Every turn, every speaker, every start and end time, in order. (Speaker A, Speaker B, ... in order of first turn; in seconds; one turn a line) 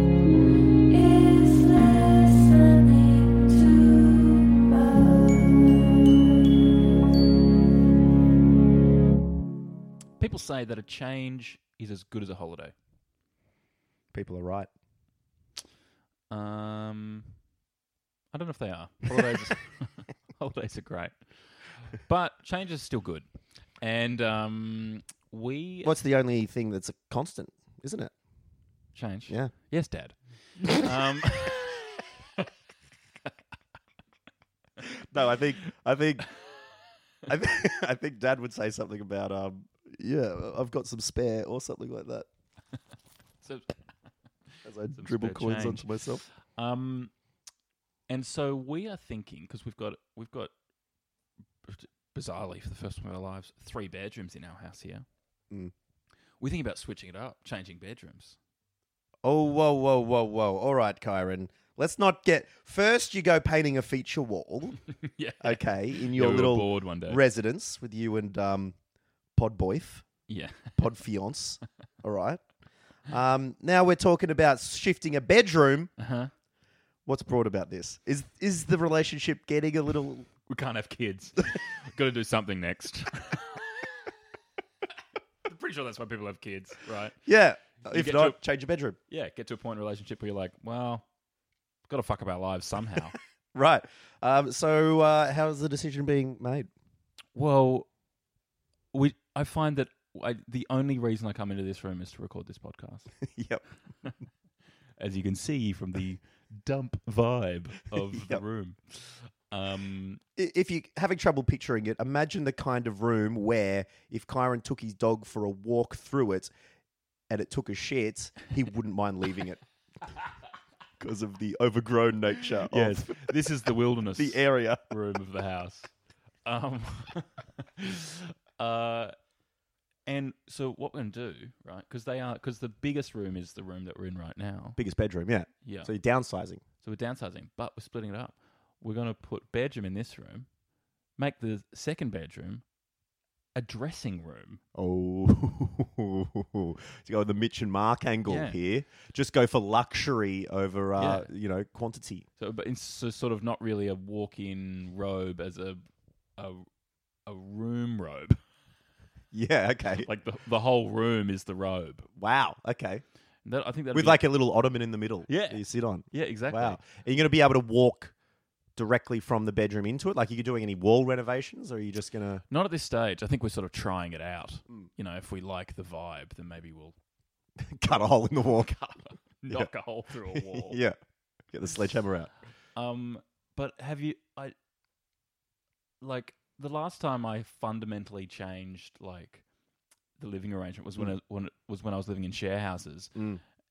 Speaker A: 0.9-5.8
Speaker B: 10.2-12.7
Speaker C: 14.1-14.7
Speaker B: 16.3-17.3
Speaker B: 18.3-21.2
Speaker B: 21.7-23.2
Speaker B: 23.8-25.9
Speaker C: 25.8-28.1
Speaker B: 28.9-31.8
Speaker C: 29.3-29.5
Speaker C: 34.9-36.3
Speaker C: 37.3-42.3
Speaker B: 43.4-43.8
Speaker C: 44.6-46.2
Speaker B: 44.9-47.1
Speaker B: 48.1-50.5
Speaker B: 51.6-55.0
Speaker B: 56.4-58.4
Speaker C: 59.2-64.8
Speaker B: 65.0-67.2
Speaker C: 65.4-68.8
Speaker C: 69.3-70.0
Speaker B: 70.3-70.8
Speaker C: 70.8-72.4
Speaker C: 73.1-75.9
Speaker B: 76.0-76.3
Speaker C: 77.0-80.3
Speaker B: 80.5-83.6
Speaker B: 85.5-87.2
Speaker C: 87.2-89.0
Speaker B: 87.8-88.4
Speaker B: 89.1-91.0
Speaker B: 91.9-93.2
Speaker C: 93.5-96.7
Speaker B: 97.3-97.9
Speaker B: 98.9-103.1
Speaker C: 103.2-103.6
Speaker B: 105.0-110.2
Speaker C: 108.0-108.4
Speaker C: 110.3-116.5
Speaker C: 117.3-119.6
Speaker C: 121.0-123.3
Speaker B: 122.7-125.9
Speaker C: 124.2-124.8
Speaker B: 126.4-129.1
Speaker B: 130.1-134.8
Speaker C: 134.8-136.6
Speaker B: 135.6-135.9
Speaker B: 136.8-140.5
Speaker B: 141.2-142.6
Speaker B: 143.6-144.6
Speaker C: 144.7-152.2
Speaker B: 148.2-148.6
Speaker B: 151.0-151.3
Speaker B: 152.4-155.8
Speaker B: 156.4-156.7
Speaker B: 157.2-158.4
Speaker C: 159.3-160.1
Speaker B: 160.0-162.1
Speaker C: 162.2-163.0
Speaker B: 163.4-164.2
Speaker C: 163.9-168.1
Speaker B: 165.3-166.8
Speaker C: 168.8-172.4
Speaker B: 172.5-176.9
Speaker C: 177.6-179.7
Speaker B: 179.4-180.8
Speaker C: 180.3-180.9
Speaker C: 181.5-182.3
Speaker B: 182.8-184.5
Speaker B: 186.0-189.4
Speaker B: 190.2-193.1
Speaker C: 193.1-193.4